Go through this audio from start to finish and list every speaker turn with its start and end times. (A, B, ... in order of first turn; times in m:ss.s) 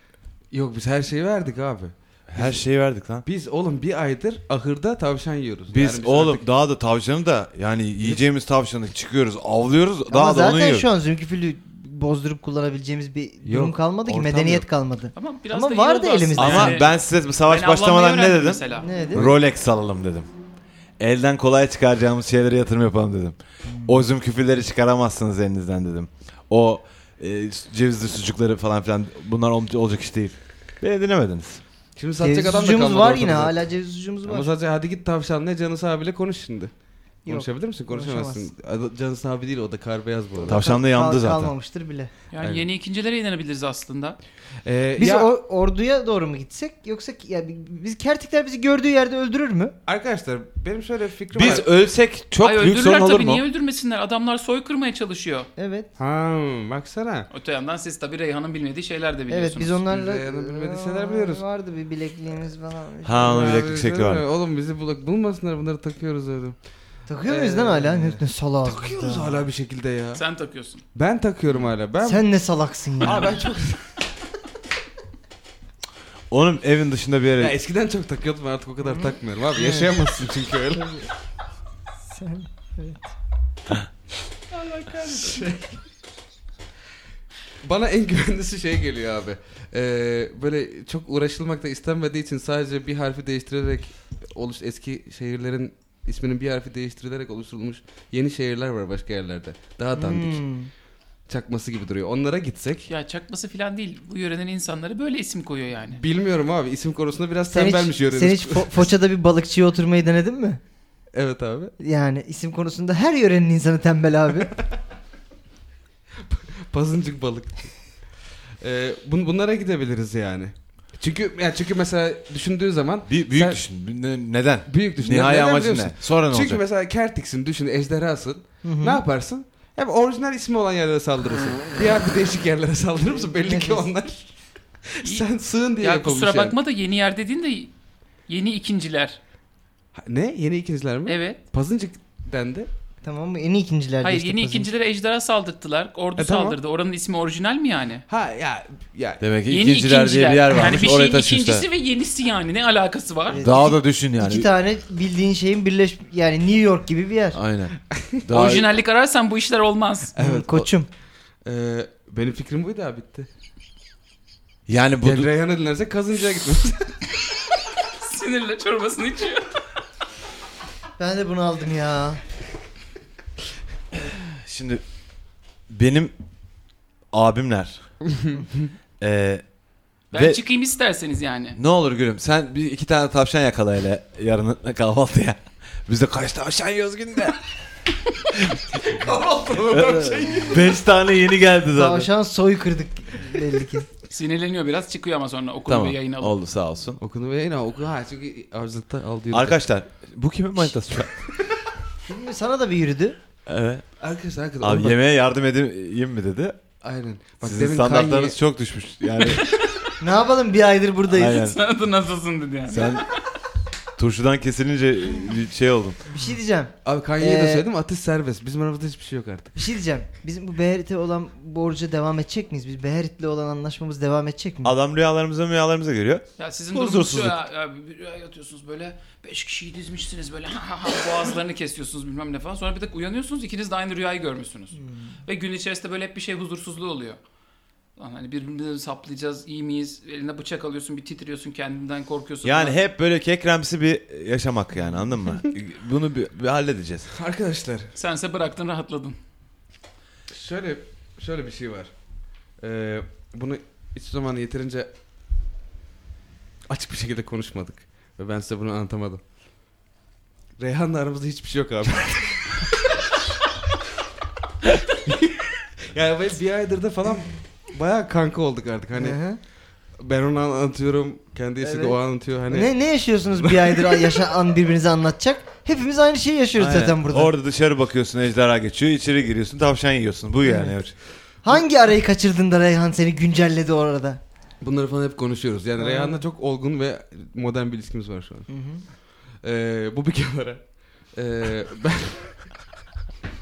0:00.5-0:02.6 A
0:02.3-0:03.2 B
0:03.2-0:06.4 A
0:05.7-0:10.9 B
0:10.1-0:16.8 C
0:13.4-0:14.7 A
0:15.1-0:16.9 D
0:16.4-0:20.3 B
0:17.4-0:18.9 D
0:18.8-0:19.2 C
0:21.0-0:31.6 B
0:32.0-0:33.6 A
0:32.2-0:34.5 C
0:34.2-0:36.7 A
0:37.2-0:40.6 A
0:37.2-0:38.5 C
0:40.4-0:42.1 C
0:40.5-0:41.5 B
0:42.3-0:44.2 D
0:44.6-0:45.3 A
0:45.0-0:49.7 C
0:49.8-0:51.7 A
0:51.3-0:53.4 B
0:52.4-0:55.5 D
0:55.6-0:55.9 C
0:56.0-0:57.3 A
0:57.3-0:59.8 D
0:59.3-1:03.6 C
0:59.9-1:01.4 A
1:03.0-1:04.2 B
1:03.2-1:06.6 A
1:07.1-1:09.4 C
1:07.2-1:10.2 A
1:10.1-1:10.8 D
1:10.9-1:12.2 A
1:12.0-1:13.4 C
1:13.0-1:13.8 A
1:16.3-1:17.5 B
1:17.4-1:21.1 A
1:18.8-1:19.9 C
1:20.8-1:21.1 C
1:22.1-1:23.1 C
1:24.5-1:25.8 A
1:27.6-1:40.4 A
1:39.9-1:40.7 C
1:41.3-1:42.9 A
1:42.9-1:46.0 D
1:45.9-1:48.9 A
1:47.5-1:50.6 C
1:51.1-1:51.7 A
1:51.8-1:54.5 C
1:56.3-1:57.8 A
1:58.6-2:03.6 A
2:03.1-2:06.6 B
2:04.7-2:16.5 A
2:08.6-2:09.0 C
2:13.0-2:13.9 C
2:15.8-2:17.7 D
2:18.3-2:19.2 D
2:19.9-2:22.7 A
2:21.1-2:21.4 D
2:23.0-2:24.7 C
2:24.0-2:28.0 D
2:26.2-2:26.6 A
2:28.1-2:29.2 A
2:29.2-2:31.6 B
2:29.5-2:33.4 D
2:33.3-2:37.4 C
2:33.4-2:34.5 B
2:37.3-2:38.7 B
2:38.3-2:40.1 D
2:40.2-2:40.7 A
2:40.2-2:40.9 C
2:41.4-2:43.3 A
2:44.7-2:45.3 B
2:45.0-2:47.0 A
2:48.0-2:49.6 D
2:51.0-2:52.2 C
2:54.1-2:54.8 B
2:55.7-2:56.1 B
2:57.1-2:57.8 B
2:59.0-2:59.4 B
3:00.1-3:01.6 D
3:00.1-3:00.4 B
3:01.6-3:07.4 B
3:08.3-3:08.8 B
3:08.8-3:10.7 A
3:09.7-3:12.1 B
3:11.7-3:13.9 C
3:14.1-3:16.3 D
3:15.7-3:17.0 B
3:17.0-3:19.6 A
3:19.3-3:21.1 B
3:22.0-3:23.2 C
3:23.4-3:23.8 B
3:24.0-3:25.0 A
3:24.6-3:26.6 B
3:26.8-3:28.4 A
3:27.4-3:29.5 B
3:29.4-3:29.9 D
3:30.0-3:31.4 C
3:31.1-3:31.6 B
3:31.2-3:33.1 D
3:32.7-3:33.0 B
3:34.0-3:36.0 B
3:36.1-3:37.6 C
3:36.8-3:39.6 A
3:39.6-3:44.7 C
3:44.6-3:47.4 B
3:46.4-3:57.2 D
3:54.8-3:55.1 C
3:58.0-4:02.8 D
4:02.4-4:07.1 B
4:07.1-4:07.9 A
4:07.9-4:09.2 D
4:10.3-4:11.9 A
4:12.6-4:14.9 A
4:16.7-4:19.2 A
4:20.6-4:22.6 A
4:25.0-4:29.2 A
4:29.0-4:29.4 C
4:30.0-4:32.7 A
4:31.6-4:32.0 C
4:32.5-4:37.3 C
4:33.3-4:34.2 A
4:36.6-4:41.0 B
4:40.4-4:40.7 C
4:41.4-4:44.2 C
4:44.6-4:48.5 A
4:45.8-4:46.2 C
4:48.5-4:48.8 C
4:49.4-4:52.5 A